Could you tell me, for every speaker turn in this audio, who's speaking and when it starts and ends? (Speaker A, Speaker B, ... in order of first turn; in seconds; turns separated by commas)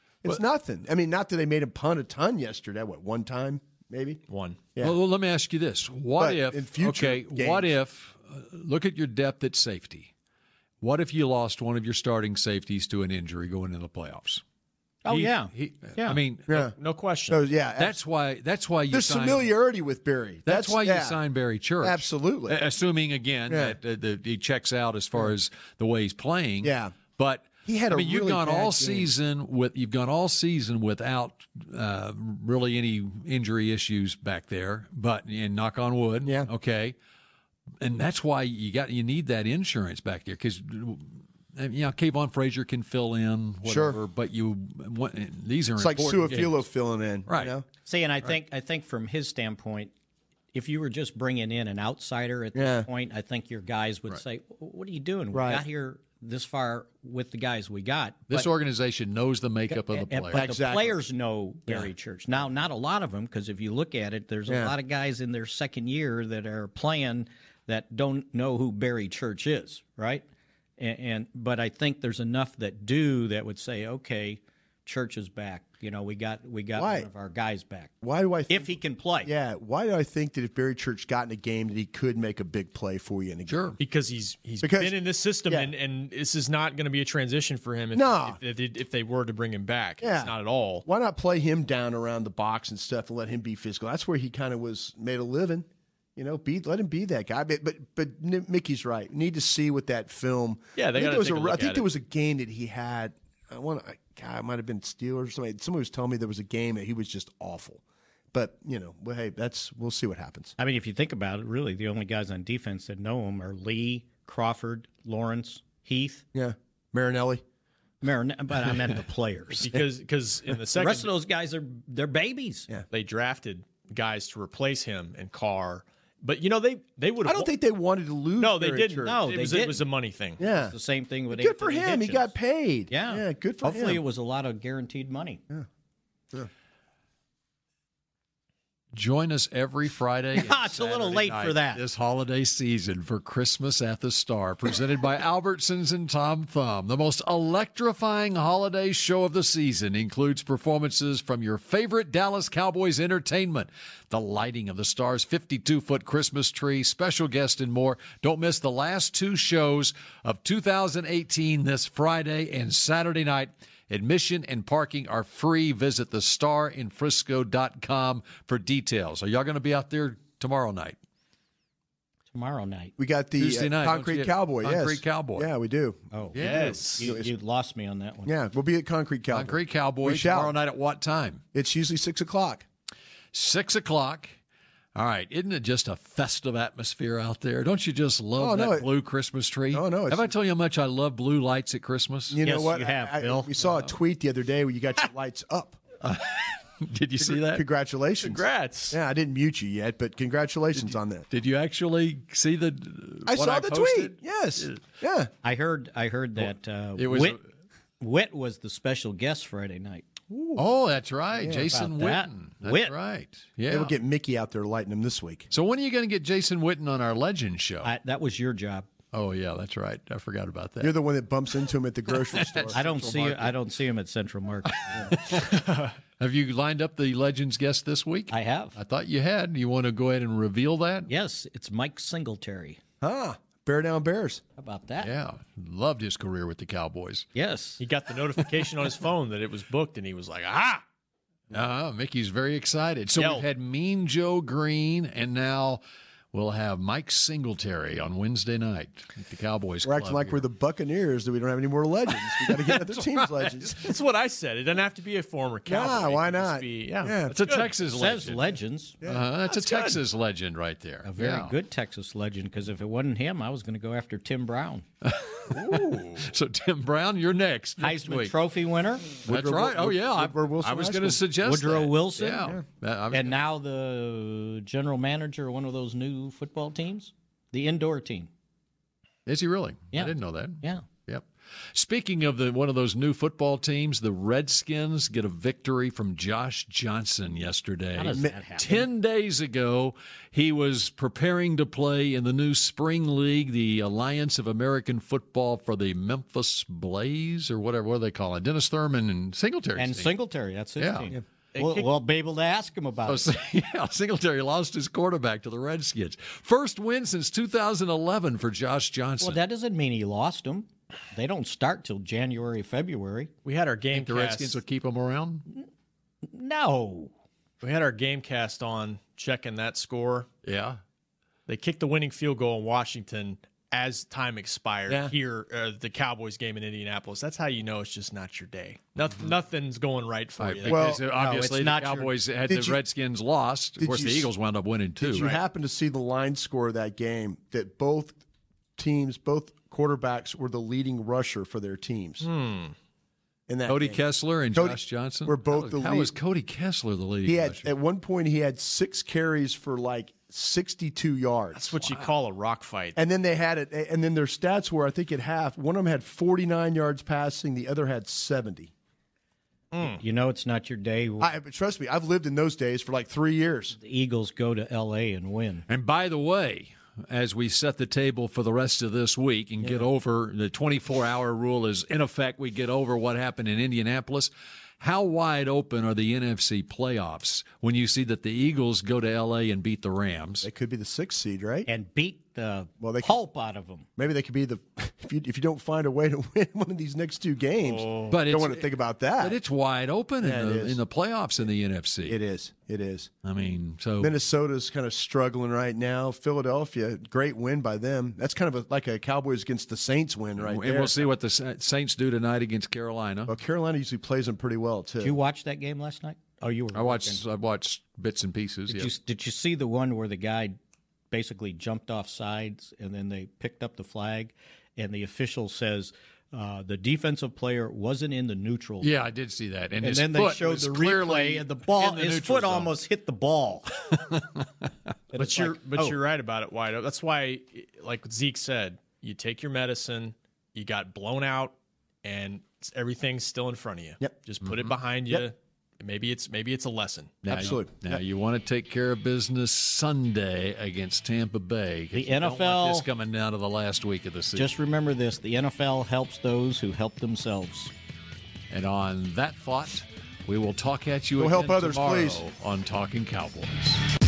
Speaker A: 0.2-4.2, Speaker B: 4.3-4.6, Speaker C: 4.8-10.1, Speaker A: 6.2-7.7, Speaker C: 10.8-14.4, Speaker D: 15.0-16.2, Speaker C: 15.1-16.6, Speaker A: 16.5-16.7, Speaker B: 16.8-17.4, Speaker A: 17.3-18.0, Speaker C: 17.8-19.5, Speaker A: 18.9-21.2, Speaker C: 20.4-36.9, Speaker A: 21.8-22.6, Speaker A: 23.5-23.8, Speaker A: 26.6-27.0, Speaker A: 27.6-29.1, Speaker A: 36.2-36.5, Speaker C: 37.8-46.7, Speaker A: 43.6-44.0, Speaker A: 45.8-47.6, Speaker C: 47.3-47.5, Speaker D: 47.9-49.9, Speaker D: 50.5-58.5, Speaker A: 52.5-52.9, Speaker A: 55.3-55.6, Speaker C: 58.3-60.5, Speaker D: 59.7-70.2, Speaker A: 60.3-61.0, Speaker A: 64.5-64.7, Speaker D: 70.8-77.9, Speaker A: 76.7-77.1, Speaker A: 78.0-83.8, Speaker D: 78.5-79.3, Speaker C: 83.5-83.8, Speaker B: 83.8-90.8, Speaker A: 84.6-85.7, Speaker A: 87.9-88.4, Speaker A: 90.0-107.8, Speaker B: 100.8-101.8, Speaker A: 108.3-110.5, Speaker D: 110.6-116.2, Speaker A: 116.3-117.4, Speaker D: 118.0-119.7, Speaker B: 119.6-121.1, Speaker D: 120.7-122.7, Speaker B: 122.9-127.5, Speaker A: 127.2-129.2, Speaker B: 128.4-130.4, Speaker D: 129.0-129.8, Speaker A: 130.4-130.7, Speaker D: 130.4-132.3, Speaker A: 131.3-134.0, Speaker D: 132.9-135.4, Speaker C: 138.9-171.0, Speaker D: 140.3-141.8, Speaker D: 172.3-172.9, Speaker A: 173.0-177.3, Speaker C: 173.4-175.5, Speaker D: 176.1-178.3, Speaker C: 176.3-176.9, Speaker B: 176.4-177.1, Speaker A: 178.2-180.5, Speaker C: 179.3-181.4, Speaker A: 181.5-182.7, Speaker C: 183.3-184.3, Speaker C: 184.9-192.4, Speaker A: 188.4-188.9, Speaker A: 189.7-190.3, Speaker A: 192.3-195.8, Speaker D: 192.4-193.5, Speaker C: 196.0-197.6, Speaker A: 197.2-201.3, Speaker B: 198.2-199.0, Speaker C: 201.3-204.8, Speaker A: 203.3-205.3, Speaker D: 205.4-207.4, Speaker C: 207.0-207.4, Speaker D: 208.0-210.1, Speaker A: 210.3-210.6, Speaker C: 210.6-213.9, Speaker A: 211.3-211.7, Speaker D: 211.7-212.9, Speaker A: 213.7-215.5, Speaker C: 215.5-217.9, Speaker D: 217.8-218.9, Speaker C: 219.1-220.9, Speaker A: 220.8-223.2, Speaker C: 222.1-223.5, Speaker D: 222.7-225.1, Speaker C: 225.1-231.1, Speaker D: 228.3-228.8, Speaker D: 231.1-232.8, Speaker A: 233.0-234.4, Speaker D: 234.6-235.1, Speaker C: 235.0-237.3, Speaker D: 237.3-237.8, Speaker B: 237.8-240.8, Speaker C: 241.5-245.8, Speaker B: 243.2-243.4, Speaker C: 246.3-250.4, Speaker A: 249.8-253.9, Speaker C: 252.1-253.8, Speaker B: 253.8-257.7, Speaker A: 255.7-257.4, Speaker C: 257.3-258.4, Speaker D: 257.9-259.0, Speaker A: 259.0-260.0, Speaker C: 259.0-261.5, Speaker D: 261.0-264.8, Speaker C: 265.0-268.3, Speaker A: 265.5-266.3, Speaker D: 267.8-269.1, Speaker A: 269.2-271.2, Speaker C: 269.2-273.4, Speaker D: 271.4-272.6, Speaker D: 273.1-278.3, Speaker C: 279.2-300.2, Speaker D: 279.9-280.8, Speaker D: 287.9-288.9, Speaker D: 299.8-303.3, Speaker C: 300.8-301.1, Speaker B: 301.5-301.9, Speaker C: 303.1-309.4, Speaker D: 309.2-313.3, Speaker B: 313.4-314.6, Speaker C: 313.9-315.4, Speaker D: 316.2-317.1, Speaker B: 317.6-320.3, Speaker C: 320.4-320.8, Speaker B: 321.5-330.8, Speaker A: 324.9-325.1, Speaker C: 330.4-335.3, Speaker A: 330.6-331.0, Speaker D: 331.0-332.1, Speaker A: 332.5-332.8, Speaker A: 333.8-334.3, Speaker A: 335.0-338.2, Speaker B: 335.1-335.4, Speaker A: 338.8-342.3, Speaker B: 342.2-342.7, Speaker A: 343.5-344.0, Speaker C: 343.7-347.7, Speaker A: 344.5-346.1, Speaker A: 347.2-351.7, Speaker B: 351.5-353.0, Speaker C: 351.8-352.1, Speaker A: 352.9-358.7, Speaker B: 359.7-360.0, Speaker D: 360.0-361.3, Speaker A: 361.2-363.8, Speaker D: 363.8-365.6, Speaker C: 365.7-380.5, Speaker A: 380.4-381.7, Speaker D: 381.7-383.9, Speaker A: 382.8-383.1, Speaker A: 384.0-389.4, Speaker B: 387.6-388.1, Speaker C: 388.1-392.2, Speaker A: 390.2-390.8, Speaker A: 392.1-393.1, Speaker C: 393.2-394.1, Speaker A: 394.0-401.0, Speaker C: 400.4-403.3, Speaker A: 403.3-405.1, Speaker D: 405.0-407.2, Speaker C: 406.7-408.9, Speaker D: 408.7-410.6, Speaker D: 411.1-418.9, Speaker C: 418.8-422.8, Speaker D: 419.8-423.7, Speaker C: 424.1-424.4, Speaker D: 425.1-426.0, Speaker B: 425.2-437.5, Speaker C: 434.4-434.8, Speaker C: 437.2-444.5, Speaker A: 437.3-438.0, Speaker D: 441.9-442.9, Speaker D: 444.3-447.7, Speaker C: 448.5-453.8, Speaker A: 451.2-452.2